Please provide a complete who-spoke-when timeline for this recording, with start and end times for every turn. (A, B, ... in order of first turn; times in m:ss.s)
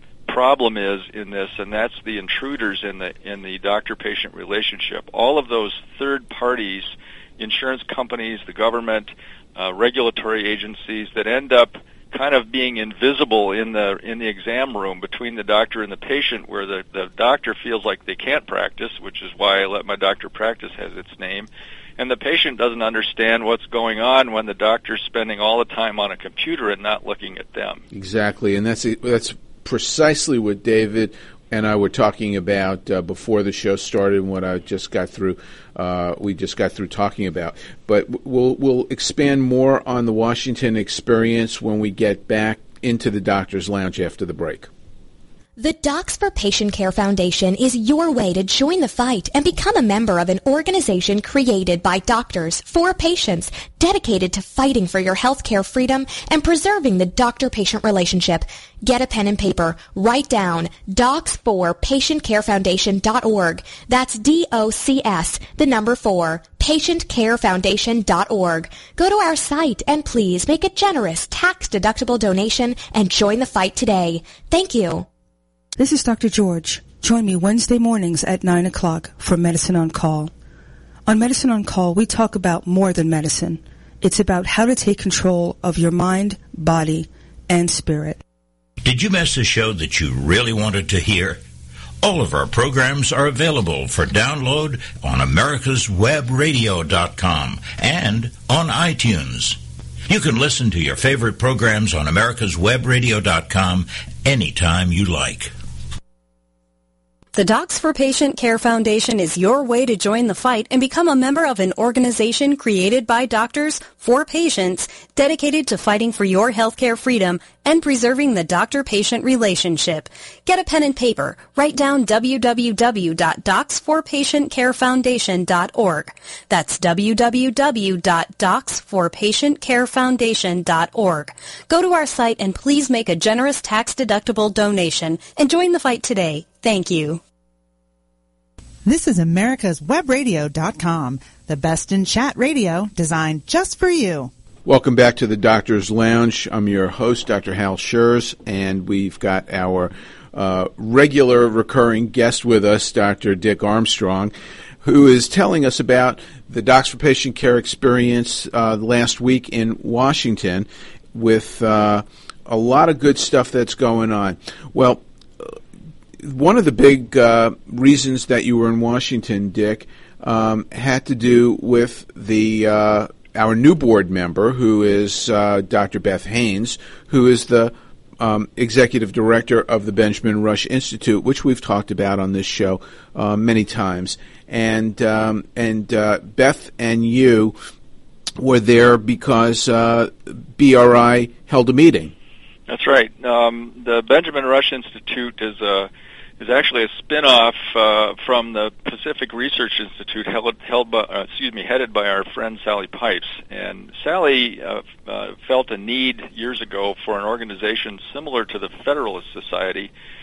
0:00.3-0:27.8 A
0:27.9-0:44.7 B
0:45.6-1:15.1 C
1:15.8-1:20.3 D
1:21.1-1:28.2 D
1:28.8-1:31.4 E
1:32.0-1:45.5 E
1:47.3-2:17.2 F
2:18.8-2:24.3 G
2:24.6-2:34.3 B
2:34.8-2:45.6 B
2:46.2-3:07.6 B
3:08.4-3:12.1 B
3:12.7-3:29.9 A